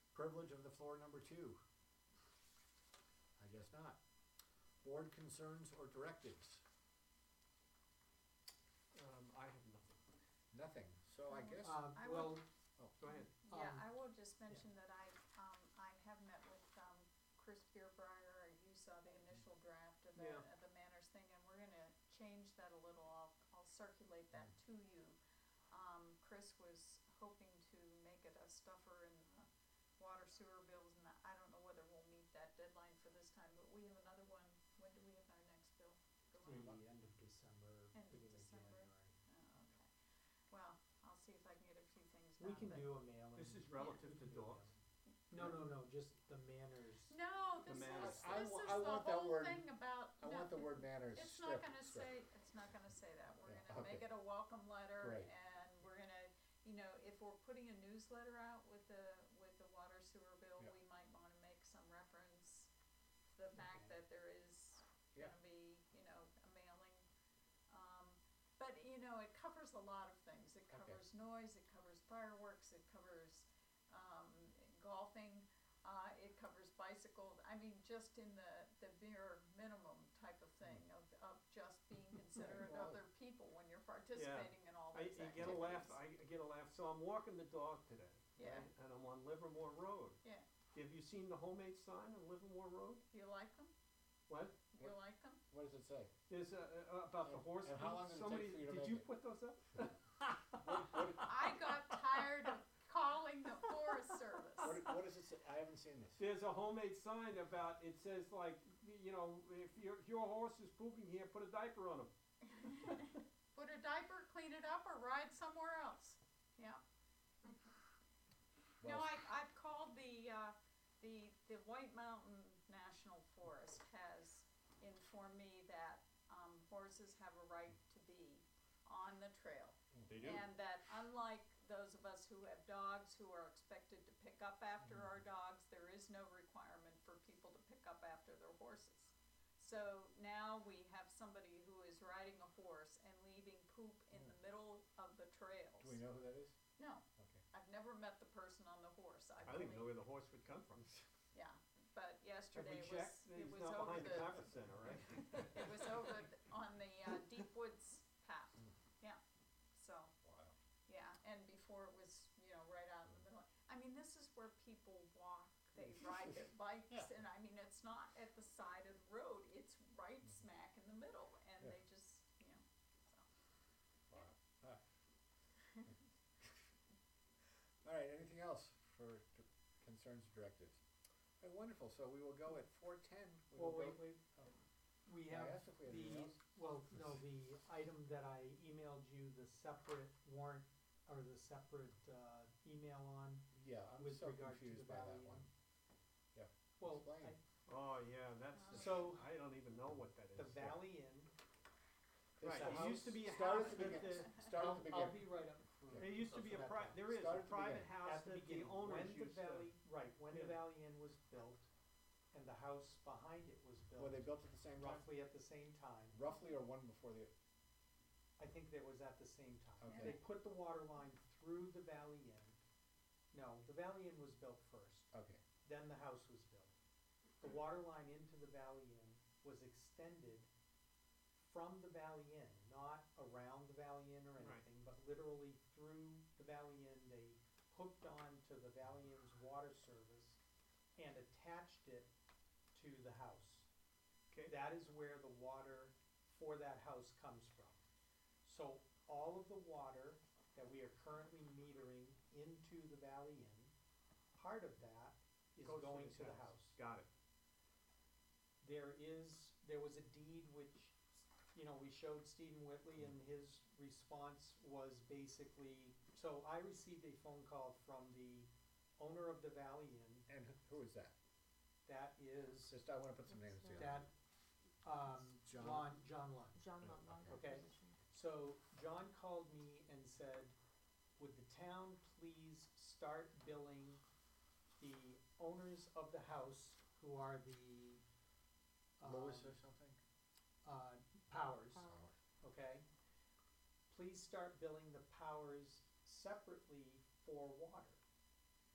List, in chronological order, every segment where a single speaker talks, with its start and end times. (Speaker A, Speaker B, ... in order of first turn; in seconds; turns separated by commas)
Speaker A: 0.1-1.6, Speaker A: 3.4-4.0, Speaker A: 4.8-6.6, Speaker B: 8.9-10.0, Speaker A: 10.5-12.0, Speaker C: 11.3-12.4, Speaker D: 11.6-12.4, Speaker B: 13.0-13.3, Speaker C: 13.1-25.2, Speaker D: 13.5-13.9, Speaker B: 20.1-20.4, Speaker C: 25.7-29.5, Speaker C: 30.0-36.7, Speaker D: 36.4-39.2, Speaker C: 37.9-39.9, Speaker C: 40.5-42.9, Speaker D: 42.4-44.7, Speaker B: 43.3-44.7, Speaker C: 43.7-44.0, Speaker D: 45.3-47.2, Speaker C: 47.1-62.7, Speaker B: 47.6-48.6, Speaker A: 47.6-52.2, Speaker A: 53.4-54.1, Speaker A: 55.0-55.3, Speaker C: 63.3-67.0, Speaker D: 63.5-63.9, Speaker C: 67.7-86.0, Speaker A: 70.7-71.0, Speaker A: 82.4-83.0, Speaker B: 84.1-90.2, Speaker C: 88.4-88.7, Speaker B: 90.7-93.0, Speaker C: 93.1-93.7, Speaker B: 94.3-94.6, Speaker C: 94.7-95.4, Speaker A: 95.5-96.1, Speaker B: 96.3-102.1, Speaker A: 97.2-99.1, Speaker A: 100.6-101.3, Speaker C: 101.2-104.9, Speaker B: 104.6-105.0, Speaker A: 104.6-106.2, Speaker B: 106.2-112.8, Speaker C: 112.5-116.8, Speaker C: 118.8-146.0, Speaker A: 118.8-119.2, Speaker B: 130.1-130.4, Speaker A: 145.8-146.6, Speaker C: 146.8-149.9, Speaker B: 149.4-150.9, Speaker C: 151.3-154.5, Speaker B: 152.5-155.7, Speaker C: 155.1-159.2, Speaker C: 159.7-160.1, Speaker A: 160.2-160.5, Speaker C: 160.9-173.3, Speaker A: 174.1-174.8, Speaker A: 177.8-180.8, Speaker A: 181.4-184.5, Speaker D: 183.5-184.3, Speaker D: 185.1-195.5, Speaker A: 185.3-186.4, Speaker A: 193.5-195.5, Speaker A: 196.3-197.3, Speaker D: 196.8-197.4, Speaker B: 197.7-200.8, Speaker C: 198.5-199.0, Speaker D: 198.7-199.2, Speaker D: 200.3-201.3, Speaker A: 202.4-205.3, Speaker B: 202.4-204.4, Speaker D: 202.4-203.1, Speaker C: 203.8-204.2, Speaker D: 204.3-207.0, Speaker A: 205.9-206.2, Speaker B: 206.0-209.7, Speaker A: 207.1-207.9, Speaker D: 208.0-211.7, Speaker B: 210.3-210.6, Speaker D: 212.3-216.2, Speaker A: 214.0-215.1, Speaker A: 216.1-217.3, Speaker D: 218.4-222.6, Speaker A: 219.8-220.2, Speaker C: 219.9-220.1, Speaker D: 223.3-225.1, Speaker A: 225.1-225.4, Speaker D: 225.6-226.7, Speaker D: 227.4-230.5, Speaker D: 231.4-240.4, Speaker B: 234.4-234.6, Speaker D: 240.9-242.1, Speaker D: 242.7-243.7, Speaker D: 244.4-247.8, Speaker D: 248.4-253.7, Speaker D: 254.3-256.8, Speaker B: 255.6-257.1, Speaker D: 258.6-270.2, Speaker A: 270.3-271.1, Speaker D: 271.9-272.8, Speaker A: 272.7-274.1, Speaker E: 273.4-273.9, Speaker D: 273.8-274.1, Speaker D: 274.8-276.6, Speaker A: 275.4-276.0, Speaker E: 276.6-277.9, Speaker A: 276.8-277.4, Speaker D: 277.3-280.5, Speaker D: 281.2-284.0, Speaker D: 284.8-288.0, Speaker D: 289.0-289.6, Speaker A: 289.0-290.0, Speaker D: 290.6-291.9, Speaker A: 291.8-292.1, Speaker D: 292.4-292.8, Speaker D: 293.9-298.0